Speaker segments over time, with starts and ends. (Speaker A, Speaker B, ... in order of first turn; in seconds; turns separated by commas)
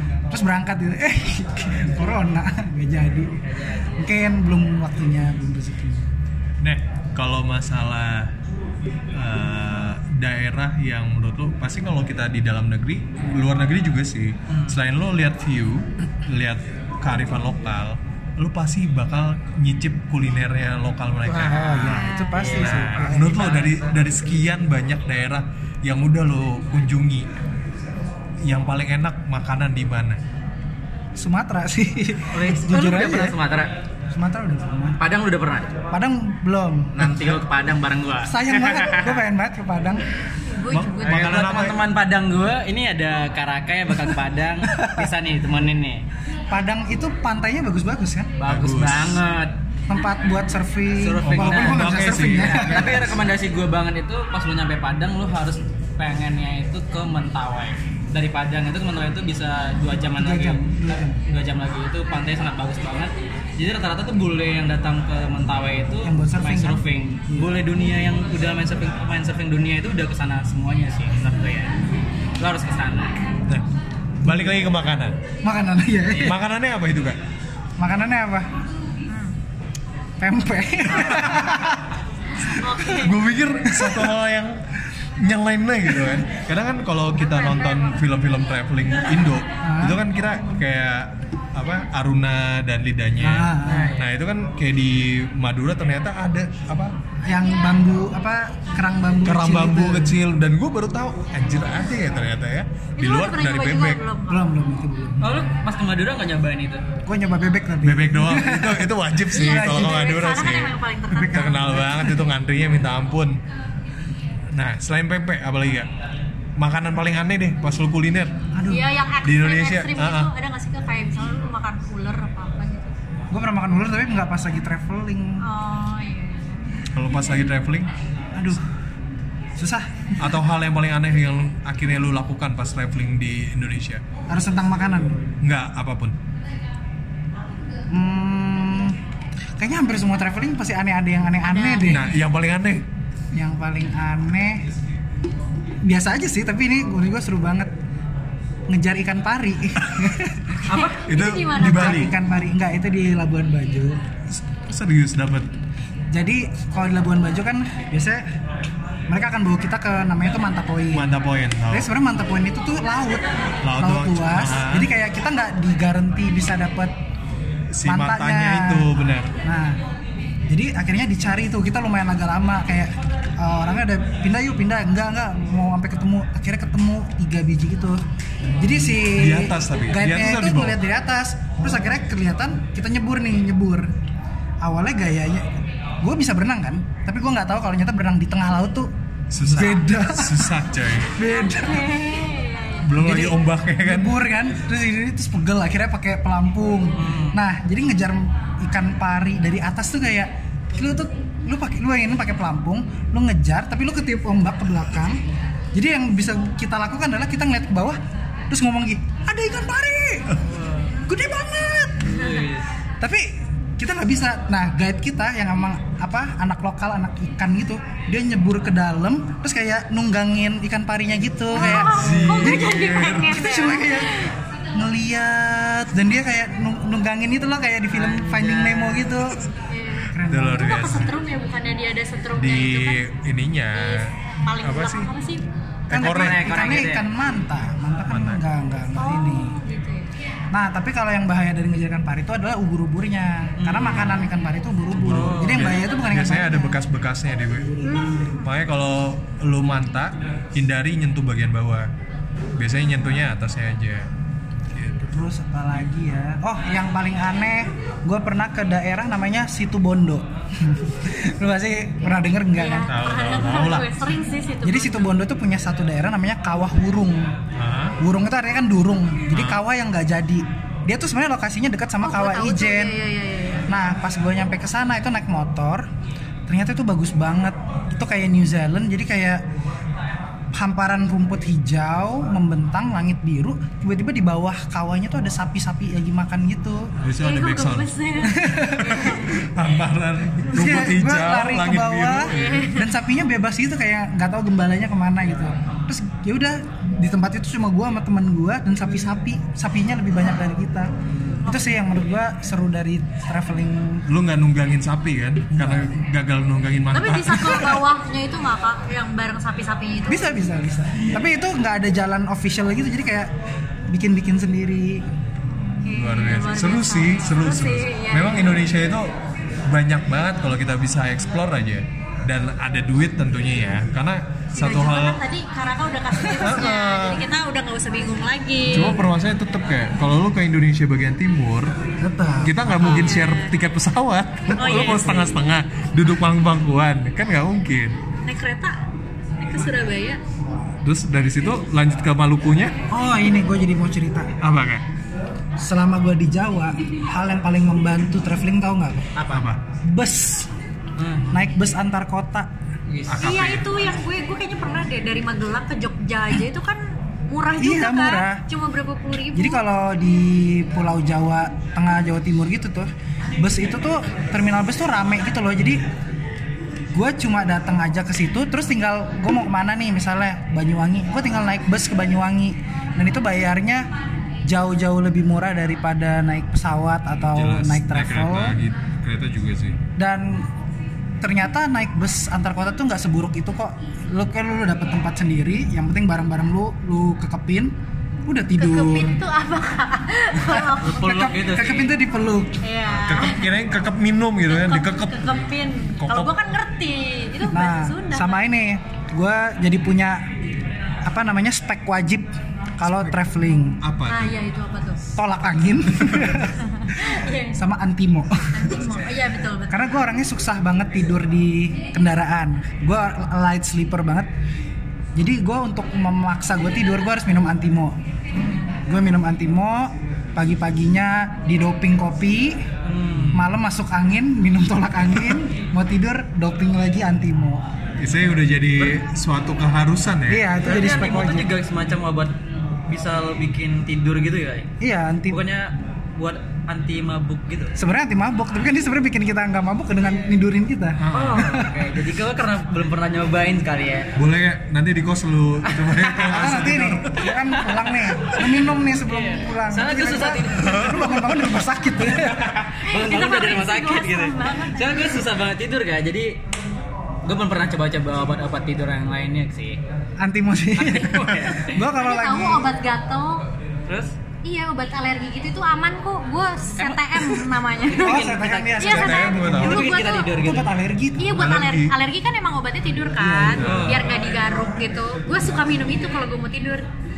Speaker A: 0.3-3.4, Speaker A: 3.9-6.1, Speaker B: 6.6-8.3, Speaker B: 9.1-27.3, Speaker C: 14.5-14.8, Speaker A: 21.3-23.5, Speaker D: 21.8-22.5, Speaker C: 22.3-23.7, Speaker B: 28.4-30.2, Speaker A: 31.1-33.4, Speaker C: 32.3-33.7, Speaker A: 34.1-35.0, Speaker C: 35.0-35.7, Speaker A: 35.9-37.0, Speaker C: 37.0-39.2, Speaker A: 38.2-40.0, Speaker D: 40.5-41.6, Speaker B: 40.7-41.8, Speaker C: 41.0-46.0, Speaker A: 44.7-45.0, Speaker A: 46.5-48.3, Speaker C: 48.4-49.5, Speaker B: 48.5-49.2, Speaker A: 49.9-53.1, Speaker C: 51.0-71.7, Speaker B: 51.2-53.1, Speaker A: 60.1-61.2, Speaker A: 66.0-67.5, Speaker C: 72.4-73.1, Speaker A: 74.2-74.6, Speaker B: 74.2-75.1, Speaker A: 75.4-76.3, Speaker B: 76.2-77.2, Speaker A: 77.8-78.5, Speaker D: 79.1-79.3, Speaker A: 80.2-81.9, Speaker B: 81.1-81.4, Speaker D: 82.4-83.1, Speaker B: 82.8-84.6, Speaker A: 83.7-84.2, Speaker B: 85.2-96.9, Speaker A: 89.6-90.0, Speaker A: 93.2-94.0, Speaker C: 93.6-94.1, Speaker A: 97.2-100.2, Speaker B: 99.2-104.0, Speaker D: 103.0-104.5, Speaker A: 104.3-105.5, Speaker C: 105.2-106.8, Speaker A: 107.0-110.1, Speaker B: 107.8-113.4, Speaker D: 109.3-111.7, Speaker A: 111.1-112.2, Speaker B: 114.5-115.9, Speaker B: 116.6-118.4, Speaker A: 118.5-119.0, Speaker D: 118.7-122.9, Speaker B: 119.2-120.3, Speaker A: 123.3-125.4, Speaker D: 125.4-126.6, Speaker B: 126.9-127.9, Speaker A: 128.3-128.6, Speaker A: 129.6-130.2, Speaker B: 130.2-134.0, Speaker A: 134.3-135.3, Speaker B: 135.4-136.2, Speaker A: 137.9-139.0, Speaker A: 139.6-142.1, Speaker D: 141.4-142.1, Speaker B: 141.8-142.8, Speaker A: 143.3-144.7, Speaker A: 145.8-147.7, Speaker A: 148.7-150.7, Speaker D: 150.7-152.1, Speaker B: 150.7-152.1, Speaker A: 151.6-154.0, Speaker B: 154.3-155.5, Speaker A: 156.1-158.2, Speaker A: 159.1-161.1, Speaker B: 160.9-161.9, Speaker A: 161.7-166.9, Speaker B: 163.6-164.9, Speaker B: 167.7-169.3, Speaker A: 167.8-168.9, Speaker A: 169.4-169.8, Speaker A: 170.5-178.0, Speaker A: 178.6-183.9, Speaker B: 178.6-180.8, Speaker A: 184.6-185.5, Speaker A: 186.0-188.9, Speaker B: 189.3-191.1, Speaker A: 189.4-190.6, Speaker A: 191.1-192.0, Speaker D: 191.2-192.9, Speaker B: 192.8-194.1, Speaker A: 193.0-205.2, Speaker C: 196.9-197.4, Speaker A: 205.7-210.4, Speaker C: 210.4-210.9, Speaker A: 211.0-212.2, Speaker C: 212.0-212.7, Speaker D: 212.1-212.4, Speaker A: 213.0-229.4, Speaker D: 221.5-224.3, Speaker B: 221.6-223.5, Speaker C: 227.9-229.2, Speaker D: 229.6-233.0, Speaker A: 230.1-230.9, Speaker B: 230.3-231.2, Speaker B: 232.3-235.1, Speaker D: 233.7-235.4, Speaker B: 235.9-236.8, Speaker A: 235.9-239.6, Speaker C: 235.9-237.1, Speaker B: 238.1-238.4, Speaker D: 238.9-240.1, Speaker A: 240.5-246.8, Speaker C: 243.6-244.3, Speaker B: 244.9-251.9, Speaker C: 245.0-245.8, Speaker D: 247.8-248.5, Speaker B: 252.6-254.1, Speaker B: 254.7-255.0, Speaker A: 255.0-262.9, Speaker D: 262.5-265.2, Speaker B: 262.9-263.9, Speaker A: 264.6-267.3, Speaker B: 267.5-268.0, Speaker A: 268.0-272.9, Speaker B: 269.3-269.6, Speaker D: 272.0-273.7, Speaker A: 273.7-275.9, Speaker A: 276.5-279.4, Speaker A: 280.5-286.9, Speaker B: 287.0-287.9, Speaker D: 287.2-289.4, Speaker A: 288.2-289.1, Speaker B: 288.6-292.7, Speaker A: 290.5-300.9, Speaker D: 292.3-292.9, Speaker A: 301.4-304.1, Speaker B: 304.1-307.8, Speaker A: 305.5-305.9, Speaker D: 306.9-310.3, Speaker A: 310.1-313.3, Speaker A: 313.9-315.1, Speaker D: 315.8-318.6, Speaker B: 315.9-319.1, Speaker B: 319.6-325.2, Speaker D: 324.5-329.0, Speaker B: 326.2-327.2, Speaker B: 328.7-331.8, Speaker A: 332.0-333.2, Speaker B: 332.4-338.0, Speaker D: 332.7-333.5, Speaker D: 334.6-335.4, Speaker D: 338.2-338.8, Speaker D: 339.4-340.2, Speaker B: 340.8-342.7, Speaker A: 342.9-344.3, Speaker B: 344.4-344.8, Speaker A: 345.6-349.1, Speaker C: 349.1-349.5, Speaker B: 349.3-349.6, Speaker A: 349.8-350.5, Speaker C: 351.0-351.4, Speaker A: 351.3-352.5, Speaker C: 352.9-353.2, Speaker B: 353.1-353.7, Speaker D: 353.2-359.6, Speaker A: 357.6-358.4, Speaker A: 359.3-365.8, Speaker A: 366.9-373.9, Speaker A: 374.4-378.6, Speaker B: 377.3-379.8, Speaker A: 380.0-380.5, Speaker A: 381.2-387.8, Speaker A: 388.3-389.2, Speaker D: 388.6-391.2, Speaker A: 390.4-392.6, Speaker C: 390.8-391.9, Speaker D: 392.6-393.5, Speaker B: 392.9-396.4, Speaker D: 394.5-398.4, Speaker A: 397.5-400.3, Speaker A: 401.0-403.8, Speaker B: 402.8-404.4, Speaker D: 404.1-405.0, Speaker A: 405.1-406.6, Speaker B: 406.0-406.5, Speaker D: 406.6-407.6, Speaker A: 407.5-409.0, Speaker D: 408.5-409.9, Speaker A: 409.7-414.3, Speaker A: 415.1-417.9, Speaker C: 418.3-418.7, Speaker A: 418.9-422.6, Speaker C: 422.8-423.4, Speaker B: 423.1-423.4, Speaker A: 423.3-427.6, Speaker B: 428.0-430.4, Speaker A: 430.3-431.5, Speaker C: 430.6-432.3, Speaker C: 432.9-434.7, Speaker A: 434.8-435.4, Speaker C: 435.3-437.7, Speaker A: 437.8-441.8, Speaker B: 441.0-441.6, Speaker C: 441.1-444.1, Speaker B: 444.1-447.2, Speaker C: 445.6-446.6, Speaker A: 446.2-452.5, Speaker C: 447.3-451.3, Speaker B: 450.7-450.9, Speaker C: 452.0-456.4, Speaker D: 452.8-455.2, Speaker C: 457.2-459.8, Speaker A: 460.2-462.7, Speaker C: 460.8-461.8, Speaker D: 461.9-463.4, Speaker C: 463.9-464.1, Speaker D: 464.4-470.3, Speaker C: 466.8-468.9, Speaker A: 468.0-471.4, Speaker B: 468.8-469.9, Speaker C: 469.5-470.7, Speaker D: 471.2-476.8, Speaker B: 471.3-471.9, Speaker A: 473.2-473.7, Speaker B: 473.6-474.1, Speaker C: 473.6-474.1